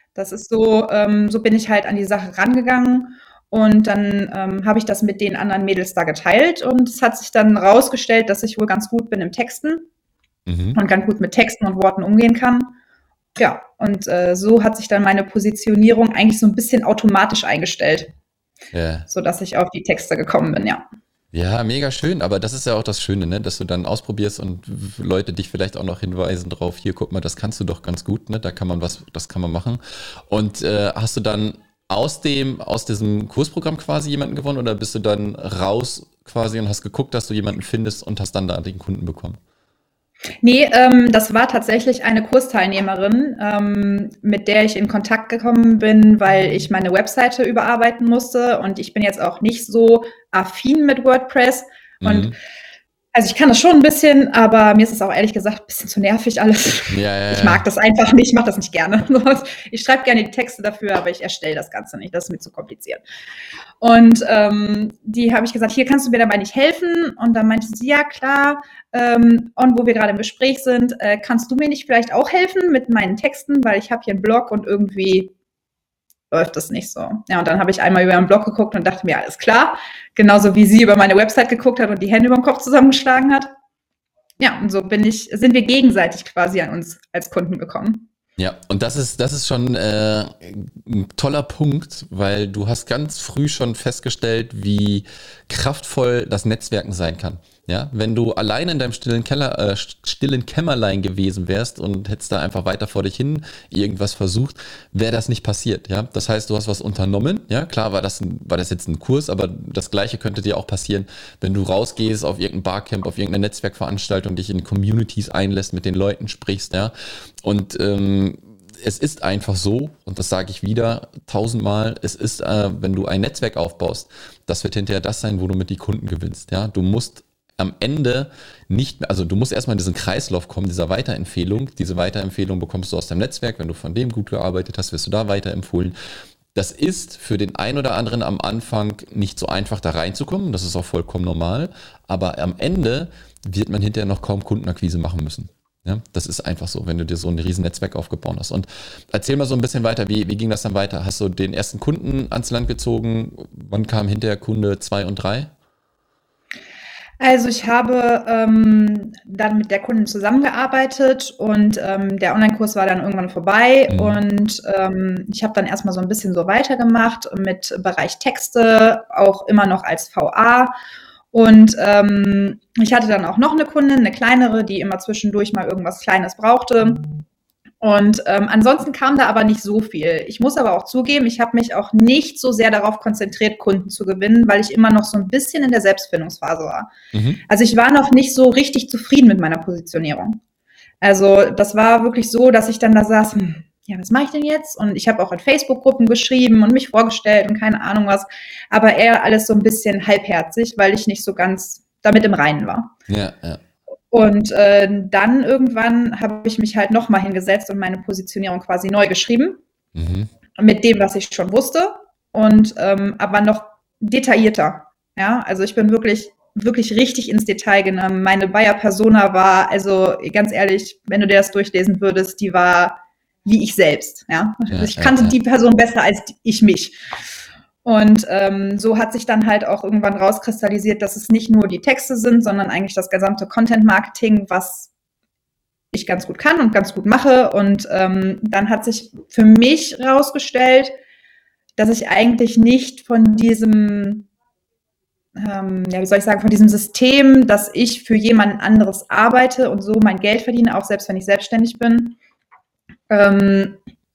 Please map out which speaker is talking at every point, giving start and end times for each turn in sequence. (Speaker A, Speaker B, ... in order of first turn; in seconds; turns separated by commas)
Speaker A: 0.1-9.9, Speaker B: 10.5-10.8, Speaker A: 10.7-12.7, Speaker A: 13.3-18.1, Speaker B: 18.7-19.1, Speaker A: 19.1-20.8, Speaker B: 21.3-39.4, Speaker A: 40.4-52.3, Speaker B: 52.0-52.4, Speaker A: 53.1-63.0, Speaker B: 56.9-57.6, Speaker A: 63.8-75.3, Speaker A: 76.3-83.5, Speaker A: 84.4-88.1, Speaker B: 88.4-135.9, Speaker B: 136.5-155.5, Speaker A: 157.2-170.7, Speaker B: 163.9-164.2, Speaker A: 171.3-177.1, Speaker A: 177.8-186.9, Speaker B: 187.1-187.4, Speaker A: 187.5-190.4, Speaker A: 191.0-202.9, Speaker B: 203.1-203.6, Speaker A: 204.1-209.6, Speaker B: 209.9-210.3, Speaker A: 210.6-227.0, Speaker B: 224.7-225.4, Speaker A: 227.8-234.9, Speaker A: 235.9-240.9, Speaker A: 241.8-244.3, Speaker A: 245.3-252.2, Speaker A: 253.1-253.8